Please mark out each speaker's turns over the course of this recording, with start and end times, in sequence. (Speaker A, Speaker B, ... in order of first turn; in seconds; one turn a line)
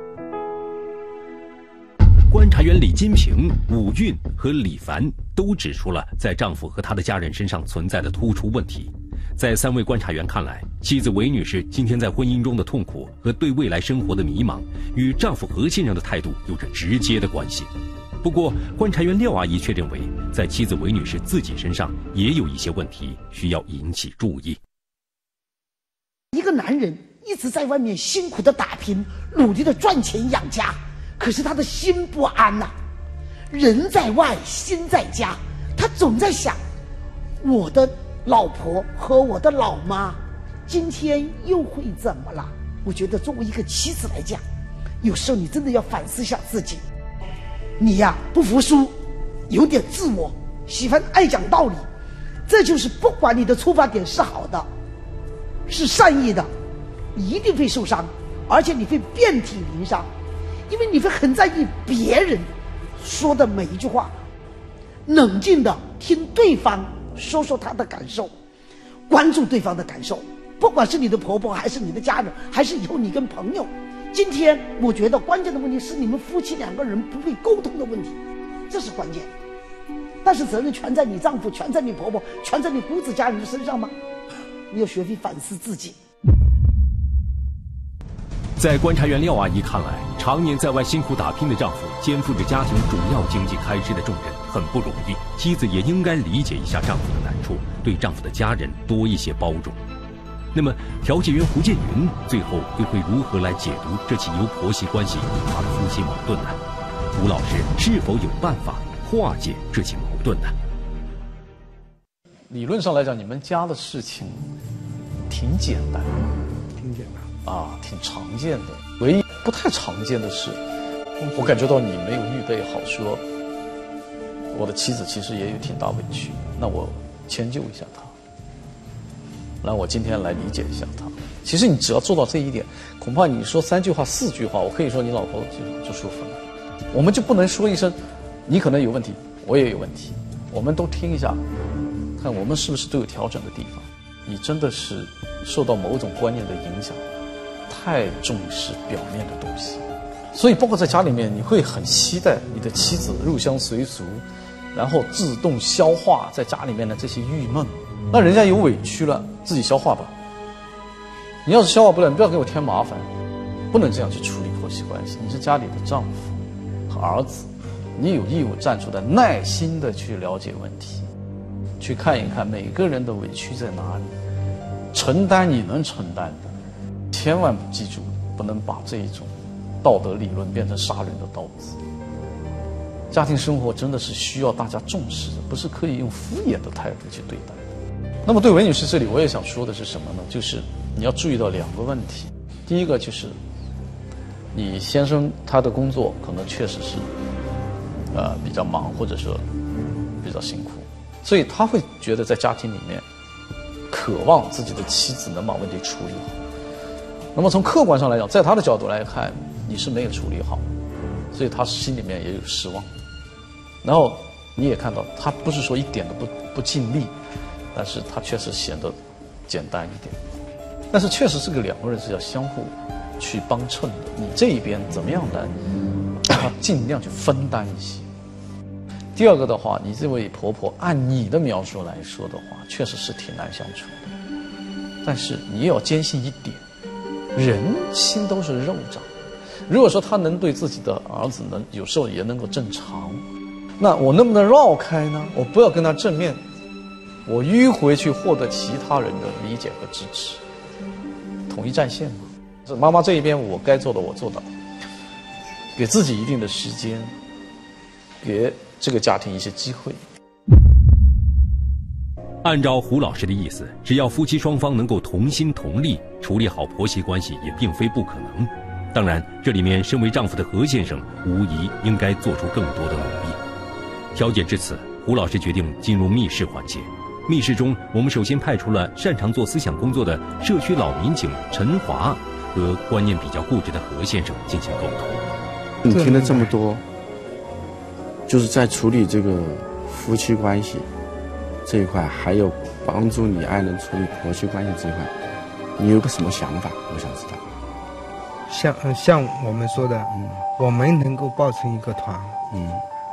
Speaker A: 2.3-17.7
Speaker A: 18.2-24.6
Speaker B: 26.3-32.7
Speaker B: 33.5-36.6
Speaker B: 37.4-44.4
Speaker B: 45.0-46.8
Speaker B: 47.8-48.9
Speaker B: 49.5-51.9
Speaker B: 52.5-54.7
Speaker B: 55.7-56.5
Speaker B: 57.1-60.1
Speaker B: 60.7-64.1
Speaker B: 65.1-68.3
Speaker B: 69.1-78.2
Speaker B: 78.7-79.3
Speaker B: 80.2-83.9
Speaker B: 84.7-86.0
Speaker A: 88.6-99.8
Speaker A: 100.5-106.6
Speaker A: 107.2-110.5
Speaker C: 112.5-114.5
Speaker C: 115.3-116.2
Speaker D: 116.8-117.3
Speaker C: 117.5-120.6
Speaker D: 121.2-121.5
Speaker C: 121.3-123.2
Speaker C: 124.5-128.1
Speaker C: 129.6-136.4
Speaker C: 136.9-141.4
Speaker C: 142.2-147.0
Speaker C: 147.7-160.1
Speaker C: 161.4-163.1
Speaker C: 163.7-166.4
Speaker C: 166.9-171.1
Speaker C: 171.8-174.1
Speaker C: 174.9-176.6
Speaker C: 177.1-181.8
Speaker C: 183.1-193.4
Speaker C: 194.5-197.1
Speaker C: 198.1-199.5
Speaker C: 200.2-203.1
Speaker C: 203.9-206.4
Speaker C: 207.3-210.7
Speaker C: 211.3-212.9
Speaker C: 213.8-217.1
Speaker C: 217.7-219.0
Speaker C: 219.5-220.2
Speaker C: 220.9-225.6
Speaker C: 226.3-228.1
Speaker C: 229.2-234.1
Speaker C: 235.0-236.6
Speaker C: 237.3-239.1
Speaker C: 239.7-243.2
Speaker C: 243.8-246.4
Speaker C: 247.3-250.4
Speaker C: 251.5-254.5
Speaker C: 255.8-257.1
Speaker C: 258.2-260.0
Speaker A: 262.4-273.4
Speaker A: 274.1-285.2
Speaker E: 285.8-286.8
Speaker D: 285.9-286.5
Speaker E: 288.3-290.9
Speaker E: 291.7-295.1
Speaker E: 295.8-297.4
Speaker D: 298.5-302.4
Speaker E: 300.1-300.4
Speaker E: 302.5-302.8